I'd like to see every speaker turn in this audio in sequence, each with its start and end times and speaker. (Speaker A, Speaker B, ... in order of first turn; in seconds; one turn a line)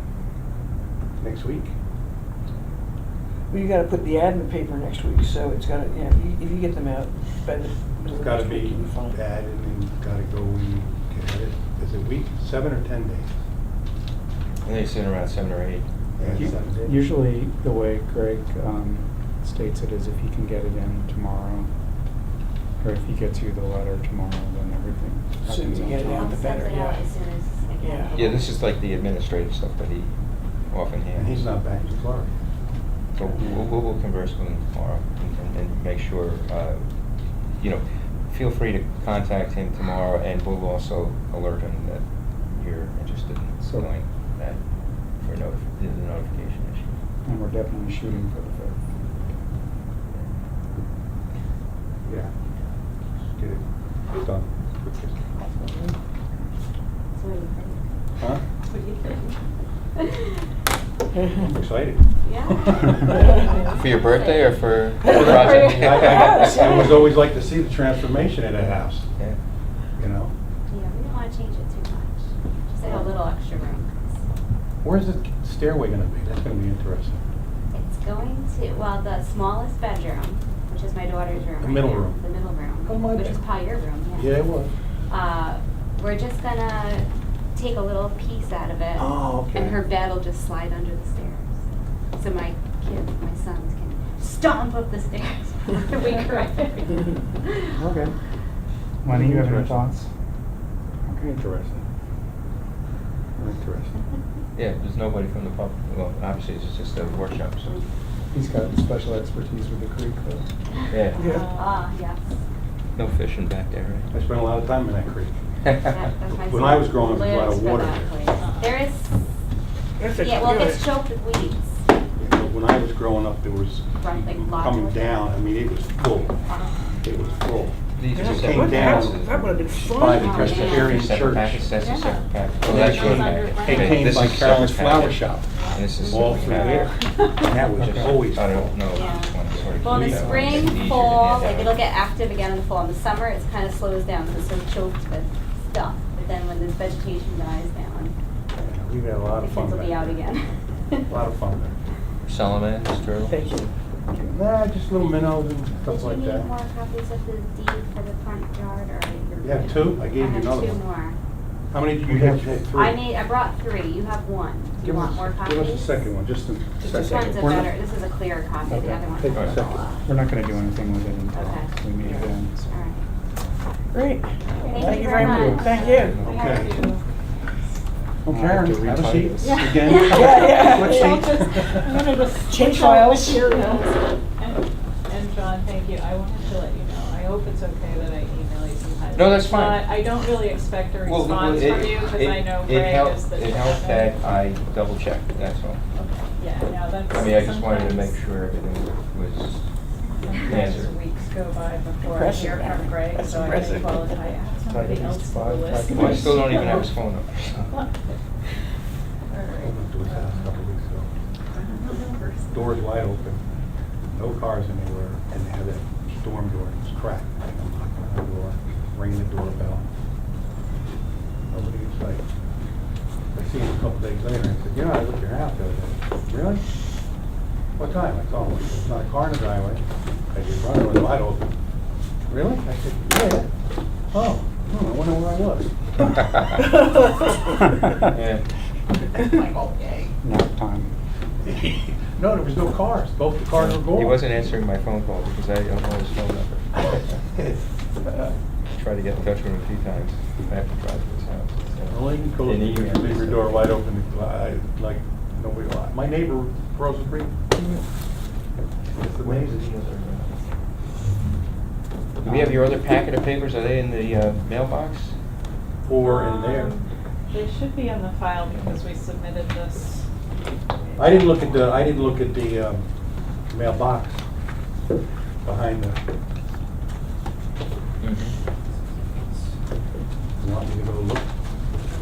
Speaker A: 1.2-1.7
Speaker B: 3.5-9.2
Speaker A: 8.0-13.4
Speaker C: 14.6-15.9
Speaker A: 16.2-17.0
Speaker D: 16.2-21.7
Speaker D: 22.8-26.4
Speaker B: 25.4-27.1
Speaker E: 26.1-28.6
Speaker B: 27.8-28.3
Speaker C: 28.1-30.1
Speaker C: 30.7-31.4
Speaker A: 31.1-32.3
Speaker C: 33.1-36.9
Speaker C: 37.5-47.0
Speaker D: 43.6-43.9
Speaker D: 47.2-48.8
Speaker A: 52.0-52.3
Speaker A: 53.3-55.2
Speaker B: 55.5-55.9
Speaker E: 57.2-57.9
Speaker F: 58.7-59.3
Speaker B: 61.2-61.5
Speaker A: 61.4-63.0
Speaker E: 62.2-66.7
Speaker C: 63.7-66.7
Speaker A: 65.0-69.1
Speaker A: 70.0-70.3
Speaker E: 70.7-74.1
Speaker A: 72.9-73.1
Speaker A: 74.8-77.2
Speaker E: 77.7-84.3
Speaker A: 81.6-82.2
Speaker A: 82.9-83.4
Speaker A: 84.1-84.7
Speaker E: 85.1-91.5
Speaker A: 89.0-89.7
Speaker E: 92.2-97.7
Speaker D: 97.8-98.1
Speaker D: 99.0-100.1
Speaker A: 99.1-99.8
Speaker D: 101.1-101.8
Speaker A: 103.4-103.9
Speaker C: 104.6-107.8
Speaker D: 108.3-110.5
Speaker C: 110.9-111.2
Speaker E: 110.9-112.3
Speaker B: 111.2-111.5
Speaker F: 111.2-111.8
Speaker C: 113.0-114.1
Speaker A: 114.1-115.4
Speaker C: 115.6-115.9
Speaker E: 115.9-119.1
Speaker A: 116.3-118.1
Speaker F: 118.4-118.8
Speaker B: 120.0-120.9
Speaker E: 120.2-121.8
Speaker A: 122.2-126.4
Speaker E: 124.0-125.3
Speaker E: 126.3-126.8
Speaker F: 126.5-127.3
Speaker A: 127.0-129.2
Speaker C: 128.0-129.6
Speaker B: 128.1-130.5
Speaker E: 129.9-131.0
Speaker A: 129.9-131.8
Speaker C: 130.4-136.9
Speaker E: 131.8-132.2
Speaker F: 132.6-134.4
Speaker A: 132.6-135.5
Speaker F: 135.5-137.7
Speaker E: 136.0-136.4
Speaker A: 136.1-138.8
Speaker D: 137.8-138.3
Speaker C: 138.2-141.8
Speaker E: 138.9-148.1
Speaker D: 139.8-140.8
Speaker A: 139.9-140.4
Speaker A: 148.6-150.2
Speaker E: 149.4-151.1
Speaker A: 151.1-151.8
Speaker C: 152.3-153.3
Speaker B: 153.2-153.7
Speaker A: 154.2-156.5
Speaker E: 155.8-161.2
Speaker A: 159.4-160.8
Speaker A: 161.7-163.1
Speaker D: 162.0-162.7
Speaker E: 162.7-166.1
Speaker A: 164.8-167.7
Speaker B: 166.8-167.4
Speaker E: 167.1-170.1
Speaker D: 168.7-169.3
Speaker A: 169.1-169.9
Speaker D: 170.1-172.8
Speaker E: 171.3-171.7
Speaker E: 172.7-173.1
Speaker B: 173.9-176.3
Speaker E: 174.6-176.0
Speaker D: 175.0-175.9
Speaker F: 175.5-177.0
Speaker C: 176.0-176.4
Speaker A: 176.2-176.8
Speaker A: 178.2-182.0
Speaker D: 178.3-179.7
Speaker F: 179.4-194.2
Speaker E: 179.9-180.3
Speaker B: 180.1-181.3
Speaker B: 182.5-184.1
Speaker C: 189.1-189.9
Speaker C: 191.0-195.8
Speaker F: 196.0-198.2
Speaker C: 197.1-199.7
Speaker F: 200.2-206.9
Speaker C: 200.4-200.9
Speaker B: 202.0-204.2
Speaker D: 204.7-206.5
Speaker C: 205.9-207.8
Speaker F: 207.7-208.0
Speaker F: 209.3-210.5
Speaker A: 209.6-211.1
Speaker F: 211.5-212.8
Speaker A: 212.5-213.4
Speaker A: 214.1-219.9
Speaker A: 221.5-222.2
Speaker A: 223.3-226.6
Speaker A: 227.8-231.5
Speaker A: 232.3-233.5
Speaker A: 234.1-235.7
Speaker C: 238.1-238.5
Speaker A: 239.4-239.9
Speaker D: 240.2-240.9
Speaker A: 241.4-244.2
Speaker C: 243.6-247.2
Speaker C: 248.8-253.7
Speaker A: 251.9-257.4
Speaker A: 258.9-259.7
Speaker C: 259.1-260.6
Speaker C: 262.2-265.1
Speaker D: 262.2-262.7
Speaker A: 265.8-266.8
Speaker F: 266.0-270.1
Speaker A: 271.0-272.9
Speaker A: 273.5-274.2
Speaker A: 275.4-276.0
Speaker C: 278.0-278.4
Speaker A: 280.4-281.3